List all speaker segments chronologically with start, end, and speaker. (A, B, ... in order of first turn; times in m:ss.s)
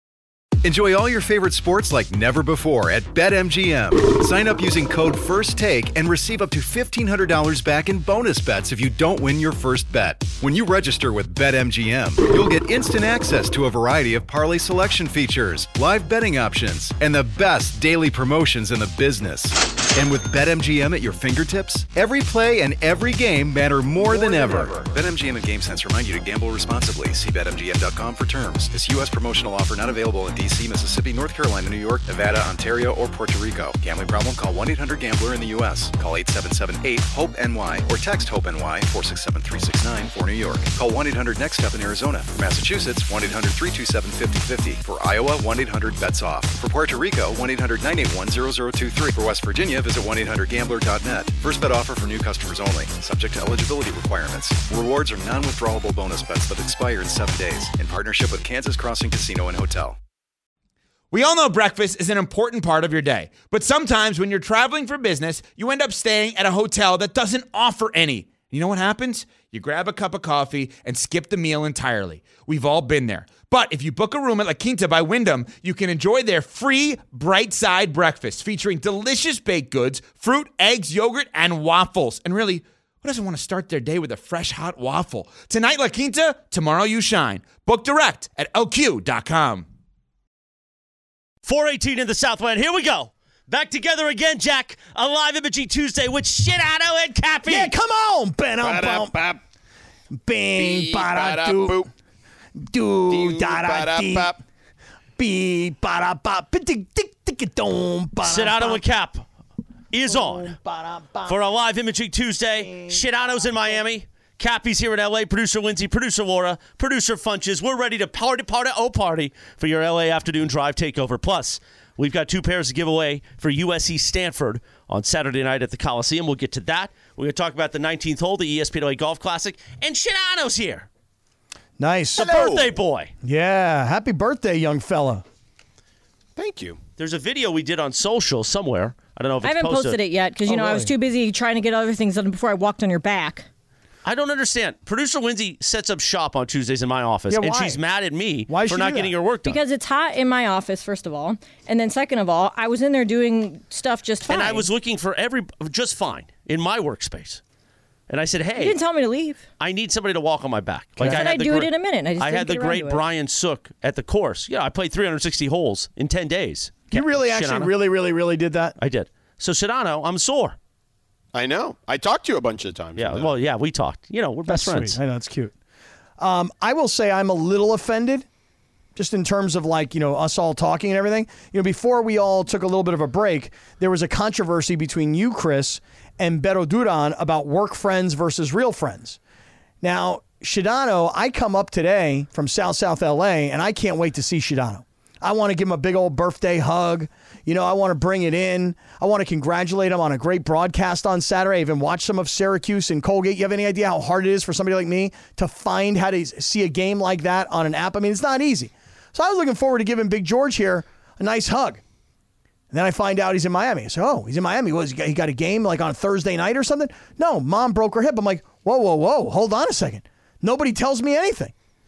0:00.6-1:00.0 A
1:01.1-1:29.7 B
1:31.4-1:37.7 C
1:37.4-1:39.1 D
1:38.6-1:39.4 E
1:40.1-1:41.8 D
1:40.6-1:41.9 E
1:42.6-1:44.3 D
1:43.1-1:44.4 E
1:45.2-1:48.8 D
1:48.2-1:49.2 C
1:49.9-1:50.6 C
1:50.0-1:51.4 D
1:51.2-2:10.9 C
1:52.6-1:53.4 D
2:11.8-2:12.2 D
2:12.1-2:12.7 E
2:12.1-2:13.1 C
2:13.2-2:15.2 D
2:16.4-2:16.8 E
2:17.0-2:20.0 C
2:19.4-2:23.5 F
2:20.4-2:20.9 D
2:24.0-2:29.6 C
2:27.3-2:27.8 D
2:28.5-2:29.1 D
2:29.4-2:34.7 F
2:34.3-2:37.4 C
2:38.1-2:38.8 C
2:38.6-2:39.4 F
2:39.6-2:47.8 C
2:41.0-2:41.2 D
2:41.0-2:43.0 F
2:46.9-2:48.8 D
2:48.8-2:50.6 C
2:51.3-2:53.4 E
2:53.0-2:55.0 C
2:54.5-2:55.5 D
2:56.2-2:58.2 D
2:59.0-3:09.2 D
3:09.8-3:31.8 D
3:32.7-3:41.5 D